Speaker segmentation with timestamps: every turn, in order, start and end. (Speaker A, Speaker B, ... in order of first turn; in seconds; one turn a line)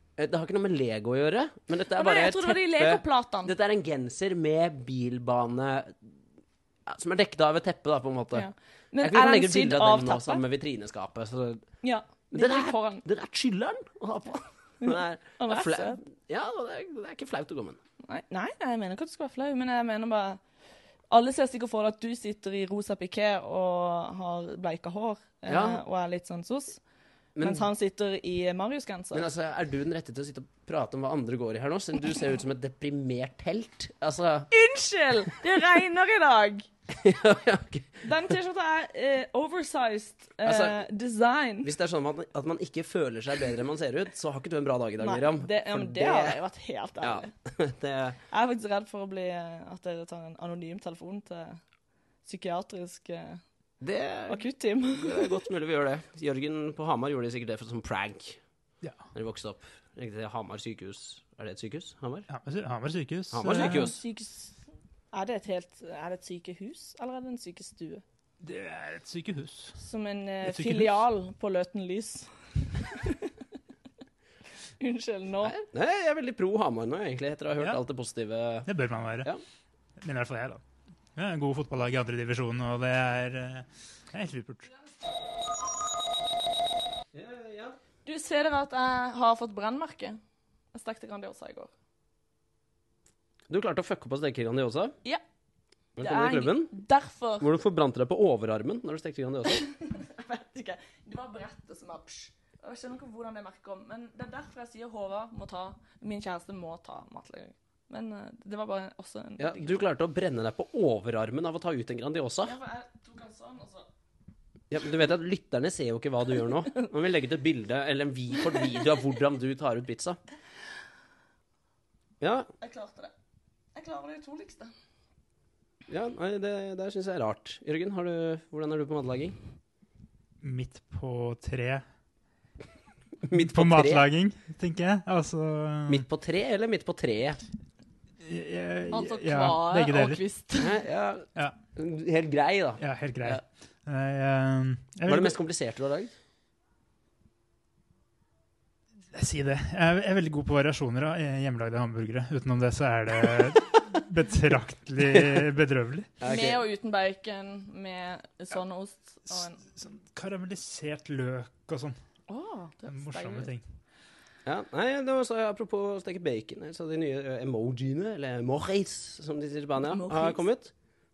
Speaker A: 0.2-6.0
Speaker B: 1.9-3.5
Speaker A: 6.9-8.5
Speaker B: 8.3-10.4
Speaker A: 9.0-11.6
Speaker B: 11.8-13.1
Speaker A: 12.3-17.8
Speaker B: 14.8-16.0
Speaker B: 18.1-20.4
Speaker B: 21.1-26.8
Speaker A: 25.5-25.8
Speaker A: 27.4-27.7
Speaker B: 27.4-29.3
Speaker A: 29.1-34.5
Speaker B: 34.5-36.7
Speaker A: 36.9-38.1
Speaker B: 38.0-41.7
Speaker A: 40.5-40.8
Speaker A: 41.6-46.4
Speaker B: 45.0-47.3
Speaker A: 47.0-48.2
Speaker B: 48.3-51.6
Speaker B: 52.2-53.4
Speaker A: 53.8-58.4
Speaker B: 54.3-55.4
Speaker A: 59.1-62.3
Speaker C: 62.3-63.9
Speaker A: 63.3-64.0
Speaker B: 63.5-64.6
Speaker B: 65.1-68.0
Speaker C: 68.4-69.8
Speaker B: 69.8-73.3
Speaker C: 70.4-71.0
Speaker B: 74.8-75.5
Speaker A: 75.5-78.7
Speaker C: 78.7-79.3
Speaker C: 80.0-80.6
Speaker C: 81.2-84.7
Speaker A: 87.1-87.8
Speaker B: 88.1-90.2
Speaker B: 90.7-91.7
Speaker A: 93.5-95.0
Speaker A: 96.0-96.7
Speaker B: 96.0-97.5
Speaker A: 97.4-99.7
Speaker B: 99.6-109.8
Speaker A: 109.4-112.5
Speaker B: 112.5-113.9
Speaker A: 114.7-120.2
Speaker A: 122.2-122.5
Speaker B: 122.6-123.1
Speaker B: 123.8-124.7
Speaker A: 125.9-129.4
Speaker C: 130.4-131.8
Speaker A: 133.2-134.1
Speaker C: 133.3-136.1
Speaker A: 135.9-137.4
Speaker C: 138.2-140.2
Speaker B: 138.9-140.8
Speaker A: 140.6-143.4
Speaker C: 142.8-145.4
Speaker A: 145.1-146.1
Speaker C: 149.1-156.1
Speaker A: 155.1-155.4
Speaker A: 156.2-156.6
Speaker B: 156.2-159.6
Speaker C: 159.6-162.0
Speaker B: 162.3-163.5
Speaker C: 162.9-163.6
Speaker A: 164.4-170.7
Speaker B: 169.8-170.4